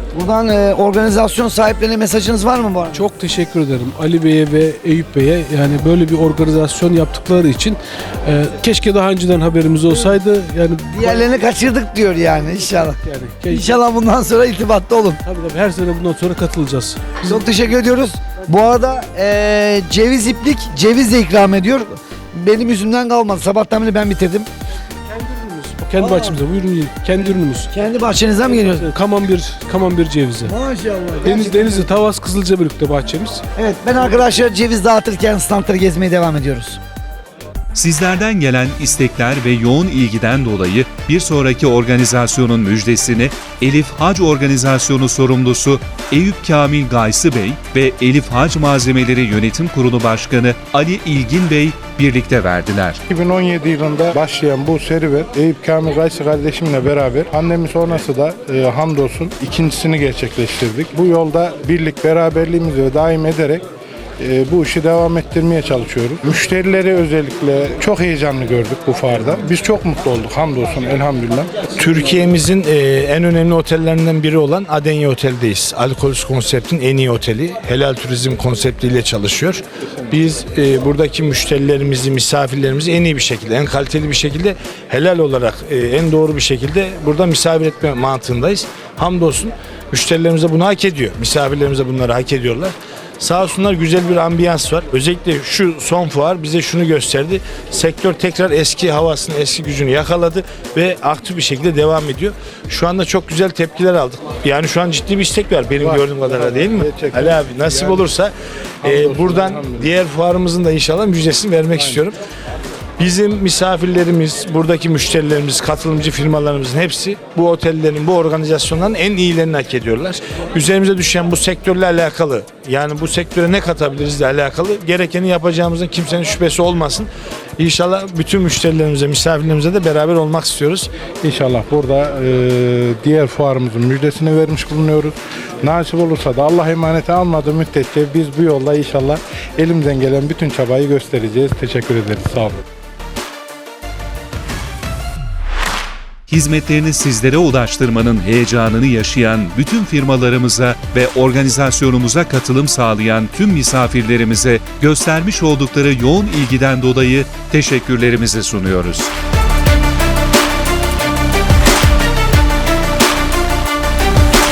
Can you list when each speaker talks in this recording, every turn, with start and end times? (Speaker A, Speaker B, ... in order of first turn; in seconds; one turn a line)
Speaker A: 0.1-3.0
Speaker B: 2.9-11.3
Speaker A: 10.9-13.0
Speaker B: 12.7-13.8
Speaker A: 13.5-15.2
Speaker B: 15.2-17.3
Speaker A: 17.2-24.5
Speaker B: 25.2-27.7
Speaker A: 26.0-26.4
Speaker A: 27.7-28.9
Speaker B: 28.8-30.6
Speaker A: 30.4-31.9
Speaker B: 31.2-33.4
Speaker A: 33.6-36.8
Speaker C: 37.7-53.0
Speaker D: 53.1-63.6
Speaker D: 64.2-71.5
Speaker E: 71.8-112.2
Speaker D: 105.8-108.1
Speaker D: 108.8-109.9
Speaker D: 111.7-112.0
Speaker E: 113.0-130.9
Speaker D: 131.2-142.6
Speaker C: 146.3-159.1